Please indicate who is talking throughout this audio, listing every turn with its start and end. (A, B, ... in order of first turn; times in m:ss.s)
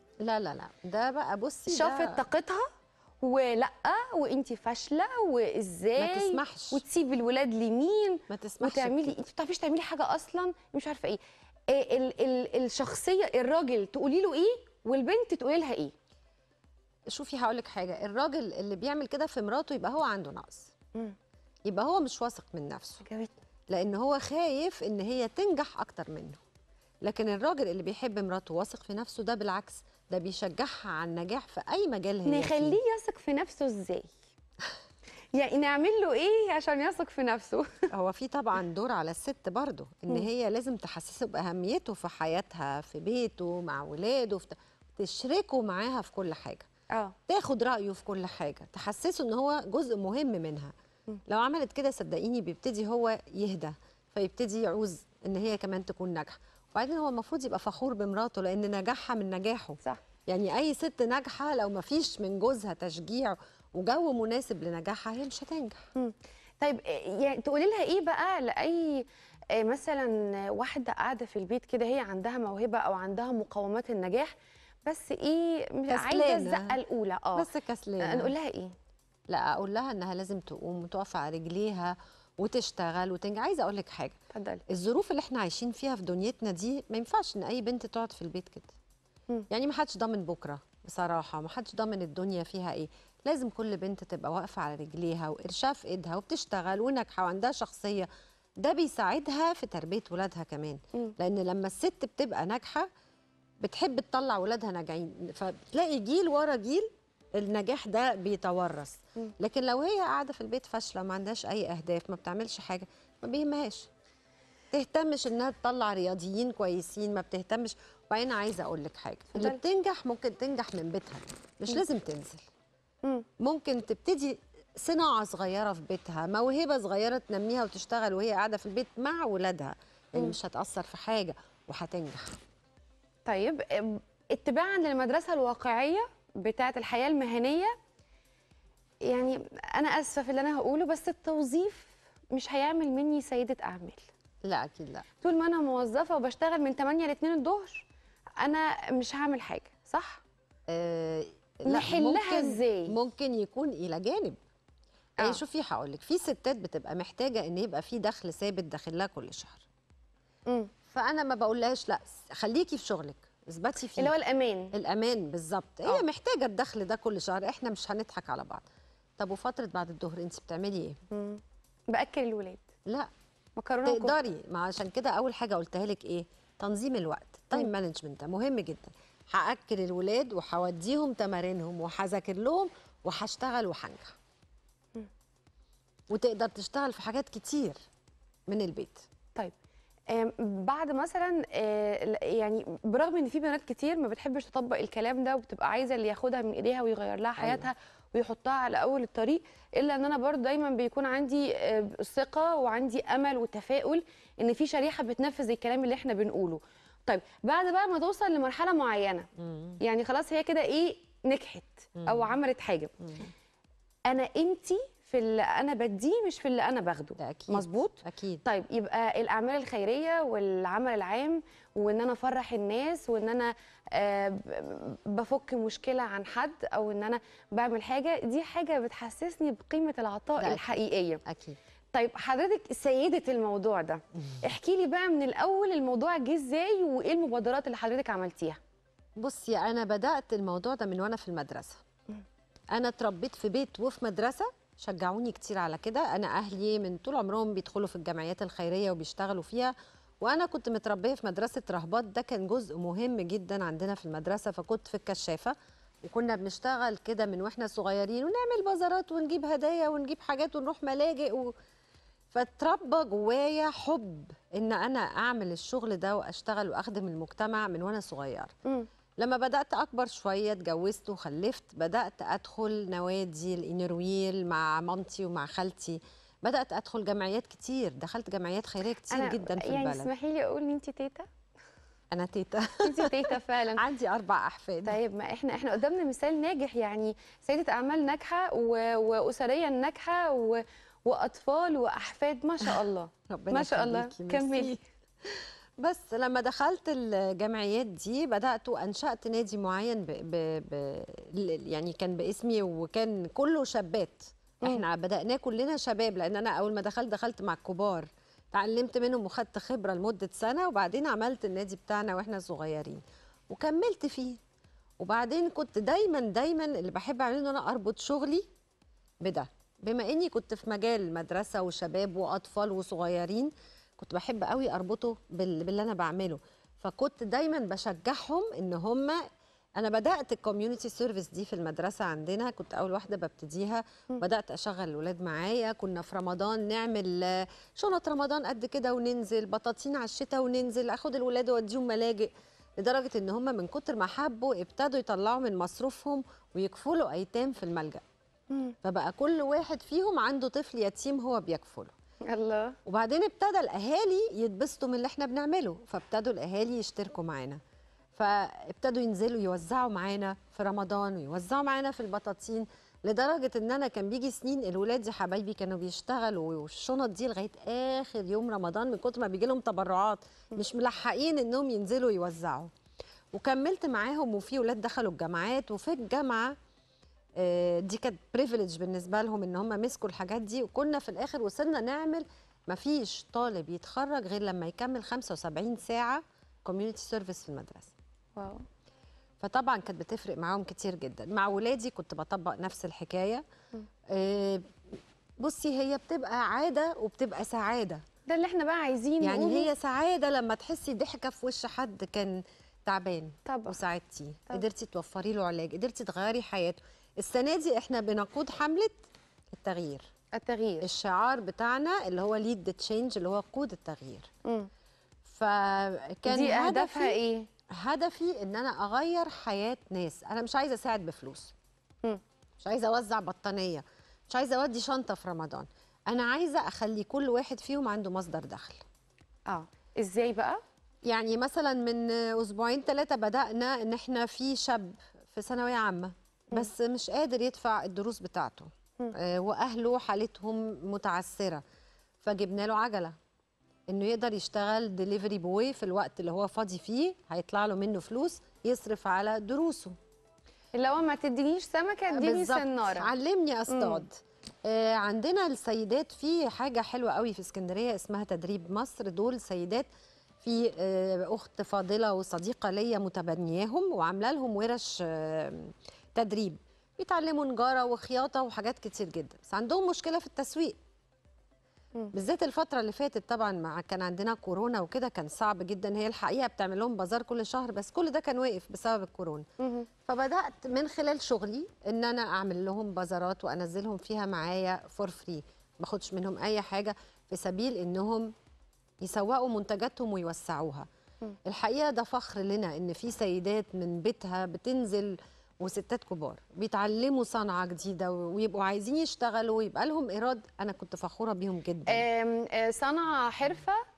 0:00.2-0:02.2 A
0:01.7-0:02.7 B
0:03.2-0:15.9 B
0:06.0-0:06.8 A
0:08.3-0:09.2 A
0:17.1-0:20.7 A
0:21.7-0:23.1 A
0:23.0-0:23.3 B
0:23.7-0:26.4 A
0:27.0-0:32.8 A
0:32.2-0:34.1 B
0:35.3-0:37.9 B
0:37.9-0:46.7 A
0:47.3-0:50.7 A
0:51.3-1:05.9 A
1:06.0-1:14.3 B
1:14.9-1:17.5 B
1:15.9-1:16.8 A
1:17.4-1:18.3 A
1:18.0-1:18.8 B
1:19.3-1:28.8 A
1:24.3-1:24.6 B
1:29.5-1:38.1 A
1:38.6-1:42.9 A
1:43.6-1:53.9 A
1:54.7-2:02.5 A
1:59.3-1:59.6 B
2:03.4-2:12.4 A
2:13.3-2:17.7 B
2:19.0-2:24.1 B
2:24.4-2:25.1 A
2:25.2-2:27.8 B
2:28.4-2:30.2 B
2:30.7-2:34.4 A
2:31.7-2:33.0 B
2:35.2-2:39.7 A
2:40.9-2:44.1 A
2:44.0-2:44.7 B
2:44.7-2:48.6 A
2:49.2-2:51.0 A
2:51.1-2:52.6 B
2:53.6-2:54.2 B
2:53.8-3:04.2 A
3:06.1-3:07.8 A
3:08.5-3:09.1 A
3:10.1-3:29.3 B
3:17.4-3:17.7 A
3:29.4-3:29.8 A
3:29.8-3:32.9 B
3:32.0-3:32.4 A
3:33.0-3:33.3 A
3:34.1-3:51.2 B
3:37.2-3:38.4 A
3:50.4-3:50.6 A
3:51.2-3:51.6 A
3:51.9-3:58.6 B
3:59.2-4:01.8 A
4:02.7-4:21.5 A
4:22.3-4:28.5 A
4:29.2-4:40.1 A
4:39.1-4:41.3 B
4:42.1-4:45.0 A
4:42.8-4:43.8 B
4:44.9-4:54.8 B
4:53.3-5:14.4 A
5:15.0-5:18.5 A
5:19.2-5:29.2 A
5:29.8-5:48.0 A
5:48.8-5:51.9 A
5:52.3-5:52.8 B
5:52.8-5:57.6 A
5:58.2-6:12.7 A
6:13.3-6:16.6 A
6:17.4-6:27.9 A
6:28.4-6:28.6 B
6:29.4-6:33.4 A
6:34.1-6:34.7 A
6:35.4-6:38.0 A
6:38.3-6:39.7 B
6:39.2-6:49.0 A
6:43.5-6:43.8 B
6:49.5-6:50.1 A
6:50.4-6:50.9 B
6:50.8-6:54.3 A
6:55.2-6:57.2 A
6:56.3-6:57.5 B
6:57.7-7:01.5 A
7:02.6-7:08.8 A
7:09.5-7:10.6 B
7:11.1-7:21.6 A
7:22.2-7:23.2 A
7:23.9-7:30.0 A
7:30.8-7:33.1 B
7:32.1-7:39.9 A
7:33.7-7:34.0 B
7:40.4-7:50.8 A
7:52.1-7:59.5 A
7:59.6-7:59.9 B
8:00.0-8:08.3 A
8:09.0-8:10.9 A
8:11.4-8:22.0 A
8:21.9-8:23.8 B